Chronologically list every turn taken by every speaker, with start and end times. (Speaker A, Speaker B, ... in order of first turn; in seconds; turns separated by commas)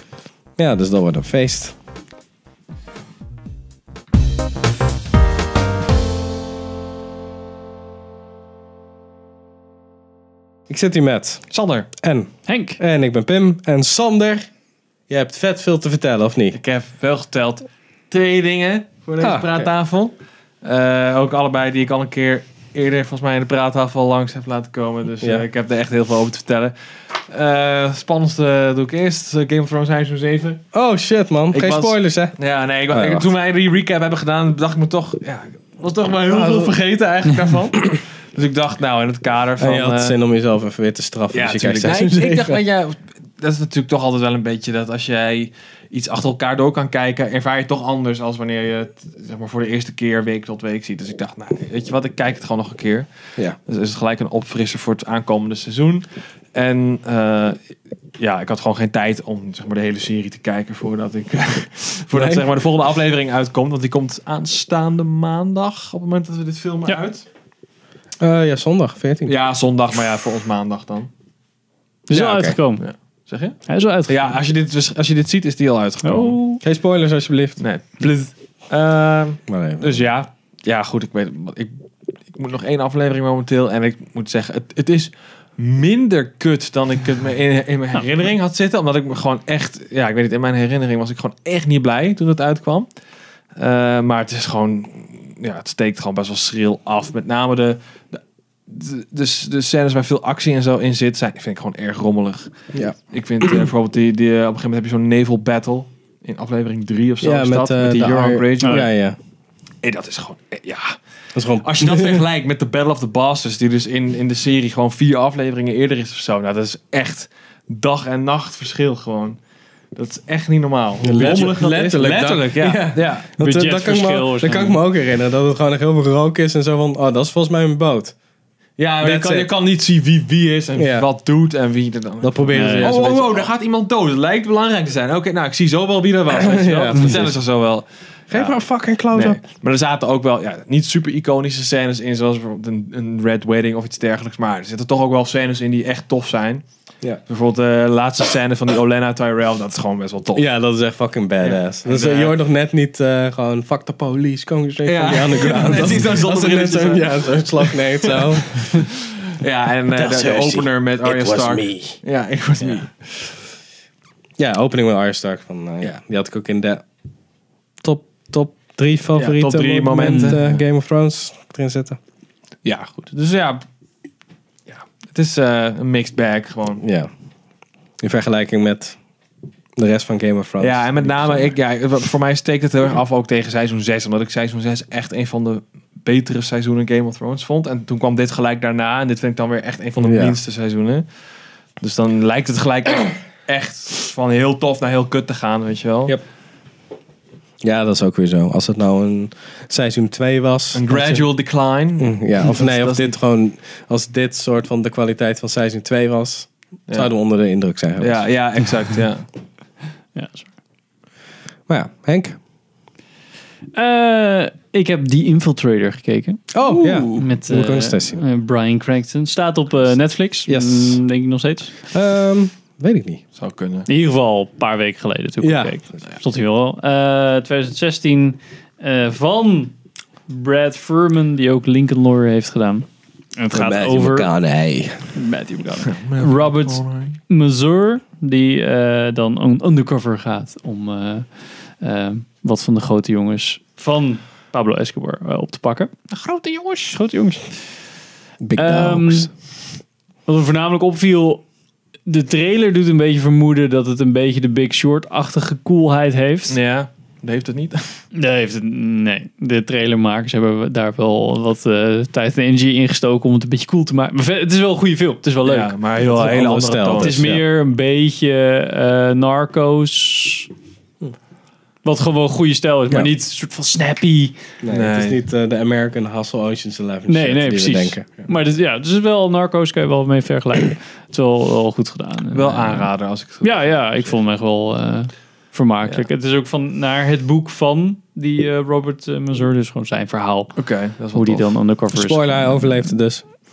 Speaker A: 0.6-1.7, Speaker A: 10.7-11.4, Speaker B: 11.5-11.9, Speaker A: 12.0-14.5, Speaker C: 12.5-12.8, Speaker A: 15.1-16.6, Speaker B: 16.5-30.6, Speaker A: 19.2-19.6, Speaker A: 30.7-32.4, Speaker B: 31.5-40.1, Speaker A: 32.9-33.3, Speaker A: 36.3-36.7, Speaker A: 39.6-42.6, Speaker B: 41.3-53.1, Speaker B: 53.6-57.6, Speaker B: 58.2-67.3, Speaker A: 62.1-62.4, Speaker A: 68.2-69.3, Speaker B: 69.2-71.1, Speaker A: 72.1-72.6, Speaker C: 72.1-72.8, Speaker B: 72.8-76.4, Speaker C: 73.7-74.3, Speaker C: 76.0-76.6, Speaker A: 76.6-77.6, Speaker B: 77.6-92.9, Speaker A: 79.5-80.0, Speaker B: 93.5-102.5, Speaker A: 102.7-103.7, Speaker B: 103.1-108.9, Speaker A: 107.2-109.2, Speaker C: 108.6-108.9, Speaker B: 109.8-111.0, Speaker A: 111.3-112.2, Speaker B: 111.6-119.4, Speaker B: 119.9-123.3, Speaker A: 121.0-128.1, Speaker C: 121.2-121.5, Speaker C: 123.4-124.8, Speaker B: 128.8-138.5, Speaker A: 129.0-129.5, Speaker A: 130.8-131.1, Speaker A: 132.2-133.5, Speaker C: 132.5-132.9, Speaker A: 136.3-137.3, Speaker A: 138.3-139.4, Speaker B: 139.1-146.6, Speaker B: 147.3-150.4, Speaker A: 150.3-158.8, Speaker B: 151.4-152.3, Speaker B: 154.8-163.3, Speaker A: 159.9-162.0, Speaker A: 164.4-166.8, Speaker A: 167.8-172.0, Speaker B: 169.2-170.6, Speaker C: 170.0-170.4, Speaker B: 172.6-173.6, Speaker B: 174.7-176.8, Speaker A: 176.8-177.1, Speaker A: 178.0-179.0, Speaker A: 179.8-181.5, Speaker B: 180.6-191.1, Speaker A: 190.0-190.3, Speaker B: 191.8-196.1, Speaker A: 197.6-201.2, Speaker B: 200.7-203.1, Speaker A: 202.0-208.2, Speaker B: 208.0-209.2, Speaker C: 210.1-210.5, Speaker A: 211.7-212.4, Speaker C: 213.7-216.5, Speaker A: 216.5-218.2, Speaker B: 216.6-217.3, Speaker C: 217.1-221.8, Speaker A: 220.5-221.0, Speaker A: 221.9-223.2, Speaker B: 223.3-223.9, Speaker C: 223.9-229.7, Speaker A: 225.4-225.7, Speaker C: 230.3-234.3, Speaker A: 233.5-235.1, Speaker C: 235.1-245.9, Speaker B: 235.8-237.2, Speaker B: 246.1-247.0, Speaker C: 246.9-247.6, Speaker A: 248.4-249.3, Speaker C: 248.6-249.3, Speaker C: 250.3-251.4, Speaker C: 252.1-256.6, Speaker B: 256.5-257.9, Speaker C: 258.1-265.7, Speaker B: 265.4-267.2, Speaker A: 266.0-267.4, Speaker C: 266.9-270.5, Speaker C: 271.8-274.4, Speaker A: 274.6-278.3, Speaker B: 274.7-275.2, Speaker C: 277.1-282.9, Speaker B: 282.3-284.1, Speaker C: 283.4-292.9, Speaker B: 290.6-291.5, Speaker A: 291.9-293.2